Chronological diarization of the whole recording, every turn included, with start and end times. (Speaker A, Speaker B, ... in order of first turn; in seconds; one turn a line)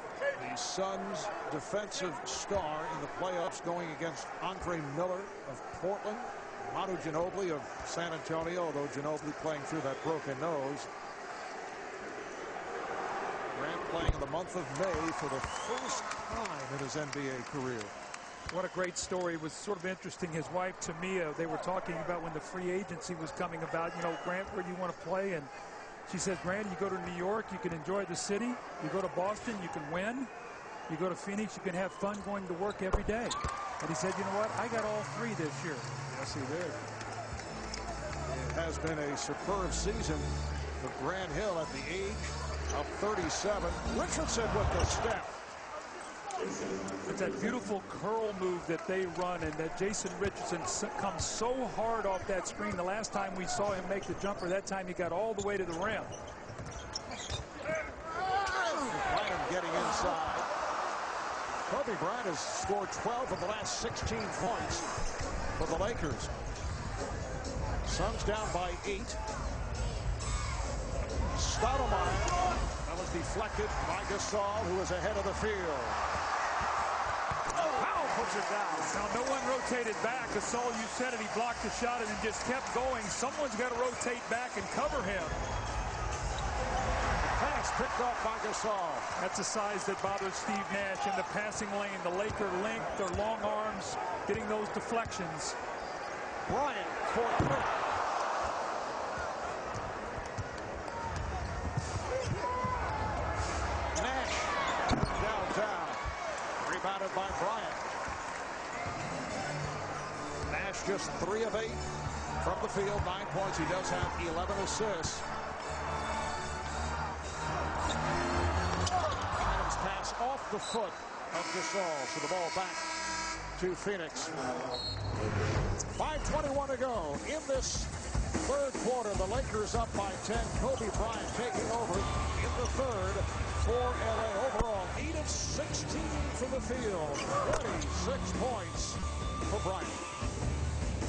Speaker A: 0.3-10.9
Speaker A: 13.5-17.9
Speaker B: 18.5-25.5
Speaker B: 26.1-30.3
Speaker B: 30.9-36.7
Speaker A: 38.2-45.4
Speaker B: 47.1-56.1
Speaker A: 58.5-60.5
Speaker A: 61.7-64.9
Speaker A: 65.6-66.3
Speaker A: 67.8-69.2
Speaker A: 71.3-76.0
Speaker A: 77.5-78.9
Speaker B: 78.9-85.4
Speaker A: 87.2-89.1
Speaker B: 89.2-95.6
Speaker A: 96.5-97.7
Speaker A: 103.9-106.0
Speaker A: 106.6-107.9
Speaker A: 110.5-111.8
Speaker A: 112.4-115.2
Speaker A: 119.3-122.8
Speaker A: 123.5-124.4
Speaker A: 125.8-140.0